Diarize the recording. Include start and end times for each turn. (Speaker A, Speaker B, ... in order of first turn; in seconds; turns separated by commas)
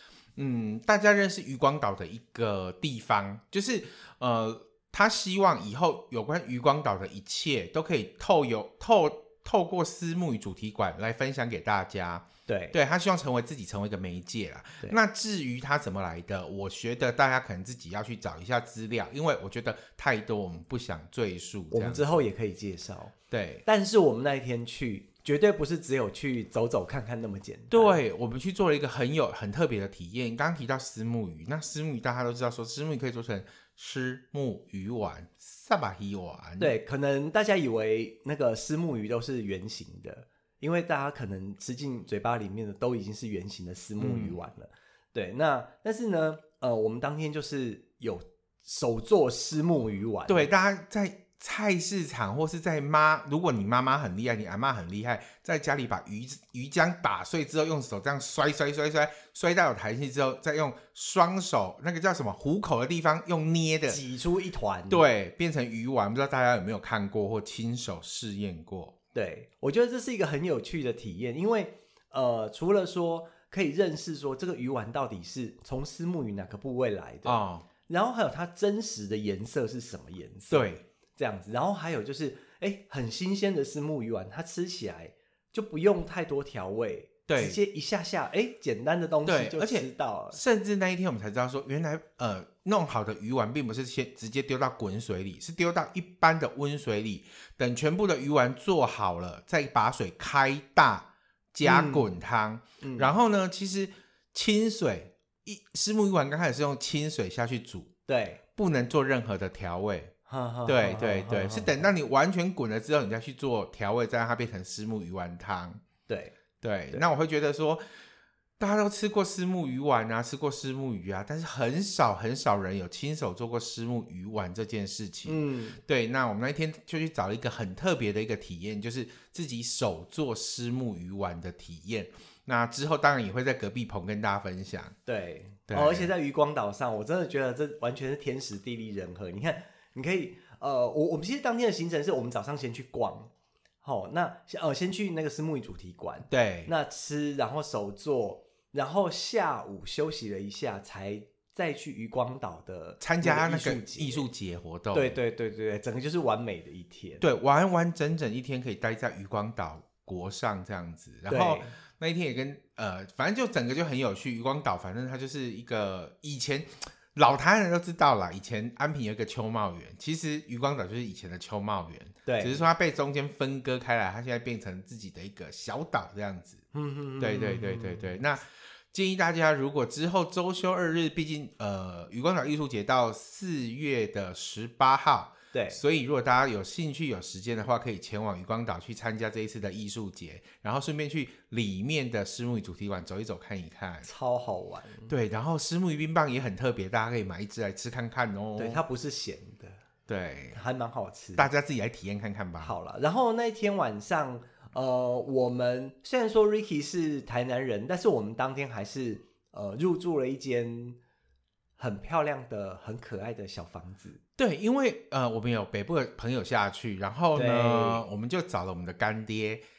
Speaker A: 0.4-22.1, Speaker B: 12.5-12.8, Speaker B: 21.7-23.1, Speaker A: 23.3-23.6, Speaker B: 23.6-28.0, Speaker A: 27.7-36.8, Speaker B: 36.6-50.5, Speaker A: 44.0-44.4, Speaker A: 50.3-64.0, Speaker B: 63.9-65.0, Speaker A: 64.9-68.9, Speaker B: 69.1-90.4, Speaker A: 77.2-77.7, Speaker A: 80.5-80.8, Speaker A: 87.3-87.6, Speaker A: 89.2-107.9, Speaker B: 101.6-102.1, Speaker B: 102.8-103.1, Speaker B: 108.1-108.4, Speaker A: 108.5-110.1, Speaker B: 110.3-111.9, Speaker A: 110.7-115.8, Speaker B: 116.1-116.3, Speaker A: 116.6-117.8, Speaker A: 118.6-135.0, Speaker B: 125.2-125.8, Speaker B: 135.1-143.3, Speaker A: 135.7-136.1, Speaker B: 143.8-154.3, Speaker A: 146.3-146.7, Speaker A: 153.0-155.2, Speaker B: 154.9-157.2, Speaker A: 157.2-176.6, Speaker B: 161.3-161.7, Speaker B: 172.2-172.7, Speaker B: 176.7-178.1, Speaker A: 177.2-194.1, Speaker B: 185.5-185.8, Speaker B: 194.0-195.1, Speaker A: 195.1-198.8, Speaker B: 198.6-199.8, Speaker A: 200.1-200.6, Speaker B: 200.5-201.5, Speaker A: 201.4-202.8, Speaker B: 202.6-211.0, Speaker B: 211.8-214.2, Speaker A: 214.4-219.6, Speaker B: 217.3-218.0